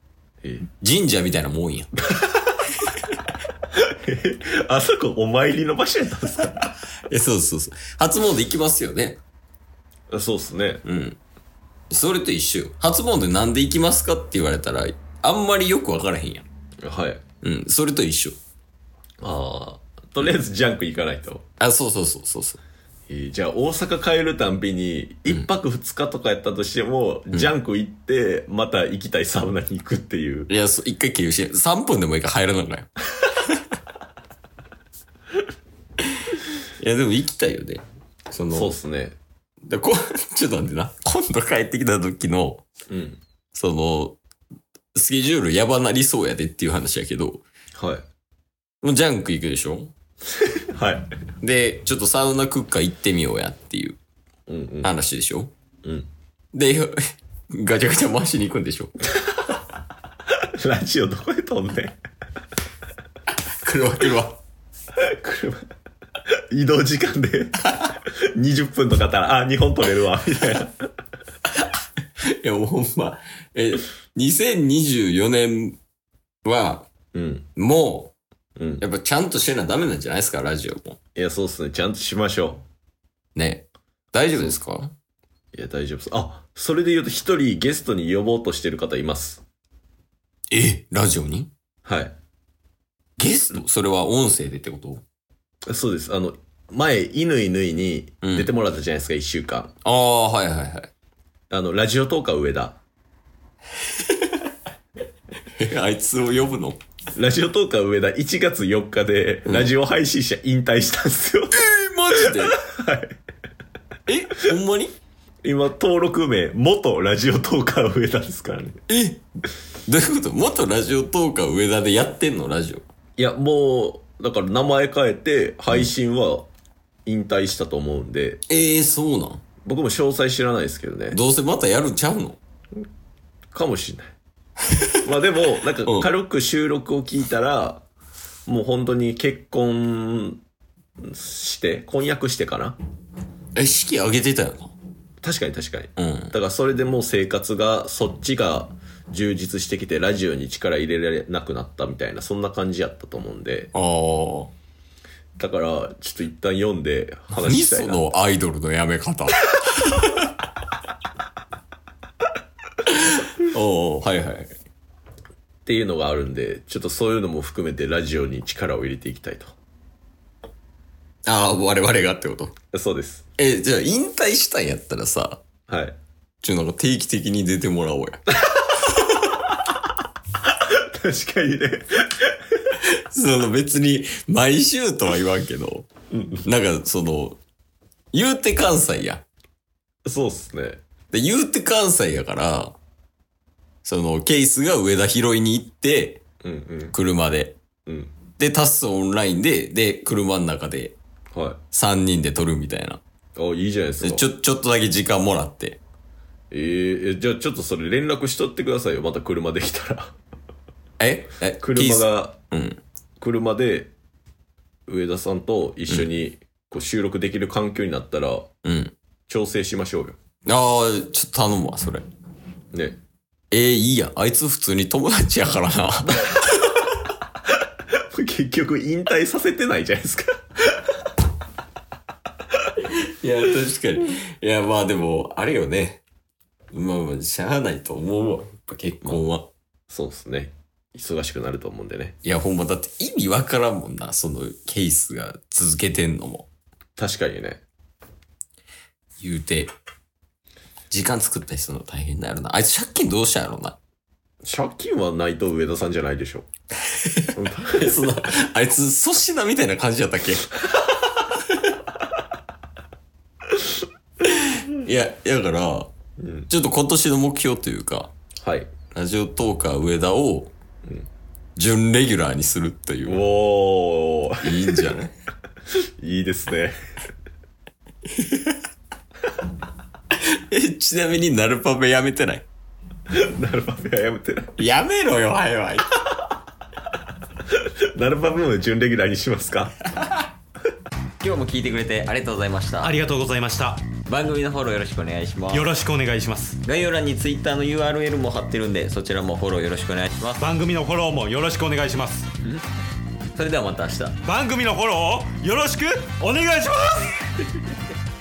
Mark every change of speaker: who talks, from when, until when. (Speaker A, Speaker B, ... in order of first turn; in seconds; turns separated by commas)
Speaker A: 0.7-2.0, Speaker B: 2.1-2.5, Speaker B: 3.7-6.7, Speaker A: 6.6-9.2, Speaker B: 10.1-10.8, Speaker A: 10.8-11.2, Speaker A: 11.9-16.5, Speaker B: 16.8-17.2, Speaker A: 17.4-18.4, Speaker B: 19.2-21.4, Speaker A: 21.6-22.6, Speaker B: 23.1-30.5, Speaker A: 30.5-33.0, Speaker A: 36.8-38.8, Speaker B: 38.5-39.2, Speaker A: 39.6-42.6, Speaker B: 42.9-43.2, Speaker A: 43.5-44.2, Speaker A: 44.9-47.4, Speaker B: 47.8-48.0, Speaker A: 48.8-49.9, Speaker B: 50.3-51.1, Speaker A: 51.4-54.0, Speaker B: 54.5-54.9, Speaker A: 54.8-55.5, Speaker B: 55.8-56.1, Speaker A: 56.5-57.0, Speaker A: 57.5-58.9, Speaker B: 60.4-62.0, Speaker A: 63.6-64.4, Speaker B: 65.0-65.7, Speaker B: 66.3-70.9, Speaker A: 67.7-68.0, Speaker A: 72.2-75.8, Speaker A: 76.4-76.9, Speaker B: 77.1-77.5, Speaker A: 77.6-78.2, Speaker B: 78.6-78.8, Speaker A: 78.8-81.0, Speaker B: 81.2-82.6, Speaker A: 83.3-84.9, Speaker B: 85.5-89.4, Speaker A: 90.5-91.5, Speaker B: 91.8-92.2, Speaker A: 93.2-95.0, Speaker B: 95.7-99.7, Speaker A: 98.2-98.5, Speaker A: 99.8-100.9, Speaker B: 101.5-102.8, Speaker A: 103.8-104.5, Speaker A: 105.5-106.8, Speaker B: 107.1-111.6, Speaker A: 109.5-109.7, Speaker A: 111.5-112.6, Speaker B: 112.1-113.1, Speaker A: 114.1-115.0, Speaker B: 115.4-118.8, Speaker A: 118.9-119.2, Speaker A: 119.9-122.8, Speaker B: 123.2-126.5, Speaker B: 127.1-128.4, Speaker A: 128.5-129.4, Speaker B: 129.6-131.2, Speaker A: 131.1-132.4, Speaker B: 133.5-134.2, Speaker B: 135.0-137.8, Speaker B: 138.5-140.4, Speaker B: 141.0-142.8, Speaker A: 143.6-144.7, Speaker B: 145.2-153.7, Speaker A: 146.0-146.3, Speaker A: 153.7-154.5, Speaker B: 155.4-158.0, Speaker A: 157.4-160.3, Speaker A: 162.8-164.6, Speaker B: 165.7-169.5, Speaker A: 171.3-172.6, Speaker B: 172.7-173.3, Speaker A: 173.4-175.4, Speaker B: 175.7-176.0, Speaker A: 176.4-179.3, Speaker B: 180.4-182.6, Speaker A: 182.8-185.9, Speaker B: 186.1-186.4, Speaker A: 186.4-187.4, Speaker A: 188.1-189.2, Speaker B: 190.1-190.8, Speaker A: 191.1-192.8, Speaker A: 193.8-196.2, Speaker B: 196.4-197.0, Speaker A: 196.9-197.6, Speaker B: 197.9-198.2, Speaker A: 198.4-201.0, Speaker B: 201.3-201.6, Speaker A: 201.7-203.0, Speaker B: 203.4-204.3, Speaker A: 204.0-205.8, Speaker B: 206.5-210.2, Speaker A: 211.0-212.8, Speaker B: 211.6-212.4, Speaker B: 213.2-213.9, Speaker B: 214.9-218.5, Speaker A: 218.6-218.9, Speaker B: 219.3-220.2, Speaker A: 220.4-222.1, Speaker B: 222.7-223.0, Speaker A: 223.5-226.7, Speaker B: 227.9-230.9, Speaker A: 232.8-236.0, Speaker A: 236.7-239.5, Speaker B: 239.9-242.2, Speaker A: 242.2-246.5, Speaker B: 247.0-247.6, Speaker A: 249.2-249.7, Speaker A: 250.9-253.8, Speaker B: 254.4-256.5, Speaker A: 256.9-260.6, Speaker B: 257.4-257.9, Speaker A: 261.2-261.7, Speaker A: 264.2-265.9, Speaker B: 266.2-266.5, Speaker A: 266.5-268.1, Speaker B: 268.4-268.7, Speaker A: 268.9-270.5, Speaker A: 271.6-273.2, Speaker B: 273.1-275.0, Speaker A: 274.4-275.1, Speaker B: 276.0-276.8, Speaker A: 278.1-278.6, Speaker A: 280.1-282.4, Speaker B: 283.1-284.6, Speaker A: 284.6-285.9, Speaker B: 287.5-289.8, Speaker A: 291.2-293.0, Speaker C: 292.8-293.9, Speaker A: 294.0-295.8, Speaker C: 295.5-296.6, Speaker A: 296.6-300.5, Speaker C: 300.4-302.3, Speaker A: 303.4-304.2, Speaker C: 304.2-307.3